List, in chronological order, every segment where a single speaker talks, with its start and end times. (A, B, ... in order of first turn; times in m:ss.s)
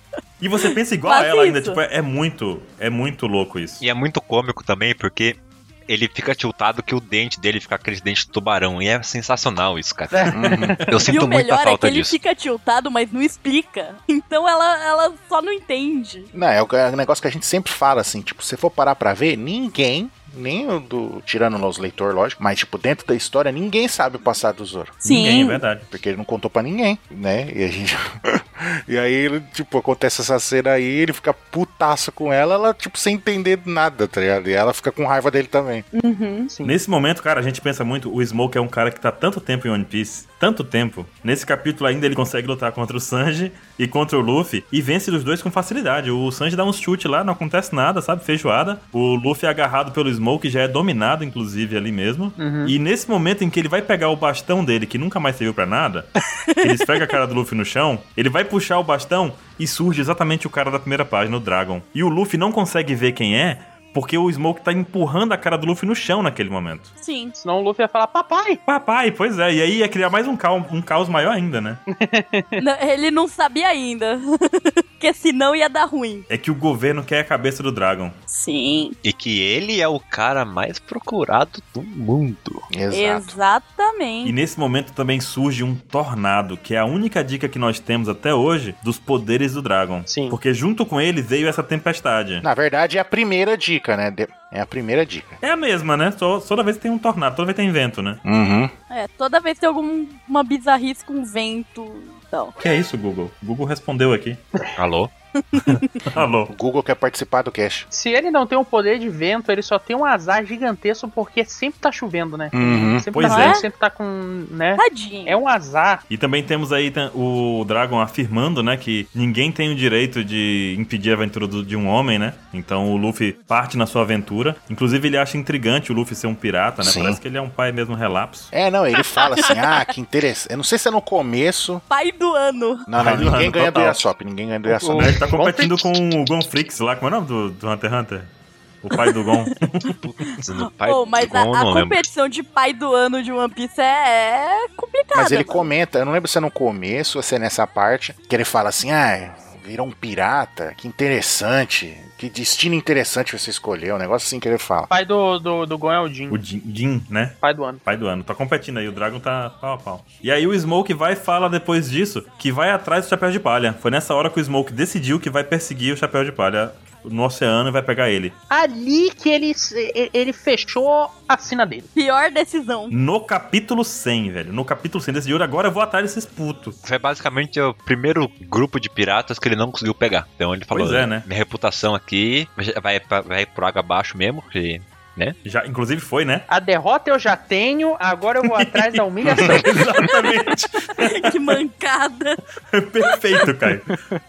0:00.4-0:03.8 A
0:00.7-0:01.8 B
0:03.8-0:12.2 C
0:10.1-0:11.1 D
0:10.3-0:10.8 E
0:11.1-0:16.3 B
0:16.3-0:25.0 E
0:25.0-0:25.9 A
0:25.0-0:25.6 B
0:25.9-0:35.9 E
0:35.9-0:36.5 B
0:36.5-0:36.8 D
0:36.6-1:06.9 A
0:52.4-0:52.8 D
0:56.5-0:57.1 B
1:07.0-1:07.4 B
1:07.4-1:08.6 D
1:08.7-1:11.8 A
1:11.9-1:12.6 D
1:12.6-1:16.3 B
1:16.3-1:18.2 A
1:18.3-1:19.0 B
1:19.0-1:22.7 C
1:22.7-1:23.4 E
1:22.9-1:24.4 B
1:24.2-1:32.5 A
1:30.1-1:30.4 D
1:32.4-1:35.4 E
1:35.4-1:38.2 A
1:38.2-1:38.7 E
1:38.9-1:42.5 B
1:42.6-1:44.4 A
1:44.8-1:45.1 C
1:45.5-1:45.9 B
1:45.6-1:46.5 A
1:46.5-1:47.9 E
1:47.9-1:56.0 D
1:52.5-1:53.1 E
1:53.1-1:53.6 A
1:53.2-1:53.7 B
1:54.8-1:55.4 B
1:56.1-2:08.5 A
2:06.8-2:07.2 E
2:08.5-2:11.8 E
2:09.5-2:09.8 B
2:11.9-2:12.9 B
2:12.9-2:15.3 E
2:13.0-2:14.0 A
2:14.7-2:15.9 D
2:15.0-2:18.3 A
2:18.8-2:20.0 A
2:18.9-2:19.3 B
2:20.0-2:22.0 C
2:20.2-2:25.7 B
2:25.1-2:34.9 E
2:34.9-2:36.4 D
2:36.3-2:48.4 A
2:37.4-2:37.8 D
2:48.5-2:51.9 D
2:52.0-2:52.9 B
2:52.9-2:56.8 A
2:56.8-3:05.4 C
3:00.7-3:01.3 A
3:05.4-3:06.5 A
3:06.5-3:09.9 D
3:08.4-3:11.6 A
3:10.0-3:10.4 B
3:10.9-3:12.4 B
3:12.7-3:13.9 A